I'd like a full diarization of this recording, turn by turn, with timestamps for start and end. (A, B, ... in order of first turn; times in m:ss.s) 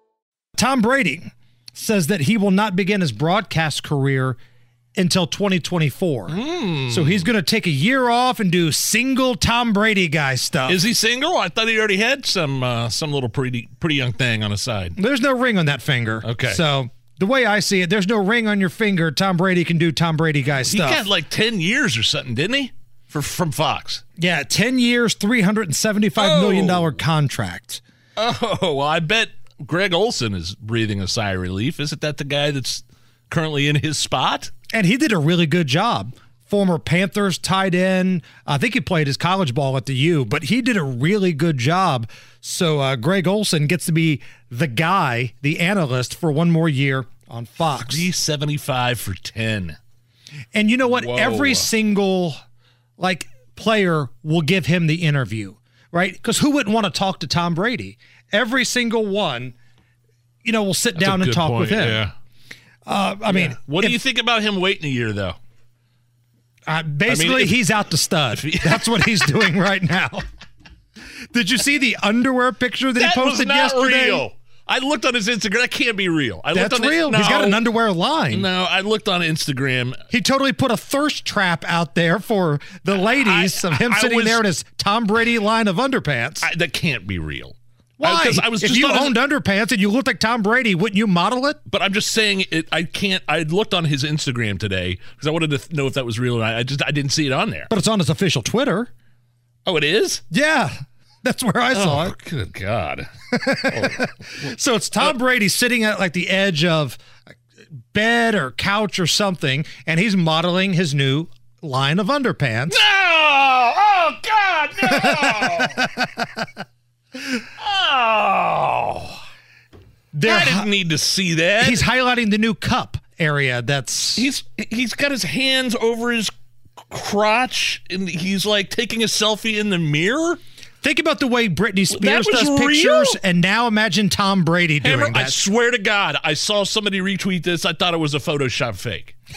0:00.6-0:04.4 A
0:05.0-0:10.8 A
0:06.3-0:07.3 B
0:10.7-0:15.0 B
0:15.0-0:21.0 A
0:16.2-0:16.6 B
0:20.7-0:24.0 B
0:24.2-0:27.8 A
0:26.2-0:27.0 B
0:28.2-0:34.5 B
0:34.7-0:48.1 A
0:47.9-0:49.8 B
0:50.5-0:52.4 A
0:50.9-0:51.7 B
0:53.0-0:59.6 A
1:00.4-1:02.1 A
1:01.0-1:02.1 B
1:02.9-1:04.0 A
1:03.3-1:05.4 B
1:06.7-1:10.2 A
1:07.1-1:07.6 B
1:08.3-1:09.3 B
1:11.3-1:14.3 A
1:13.0-1:17.6 B
1:16.5-1:18.5 A
1:18.3-1:20.0 B
1:20.1-1:26.5 A
1:23.0-1:24.4 B
1:26.4-1:29.2 B
1:28.0-1:31.6 A
1:31.7-1:37.7 B
1:37.7-1:38.9 A
1:39.7-1:40.2 B
1:40.3-1:42.2 A
1:41.7-1:43.1 B
1:43.3-1:47.0 A
1:43.7-1:44.5 B
1:47.9-1:52.8 A
1:52.7-1:55.8 B
1:54.9-1:56.4 A
1:57.6-1:59.2 B
2:00.1-2:00.7 A
2:00.2-2:01.8 B
2:01.6-2:04.3 A
2:04.2-2:06.3 B
2:06.9-2:10.4 B
2:10.8-2:15.4 A
2:11.9-2:13.2 B
2:14.8-2:19.2 B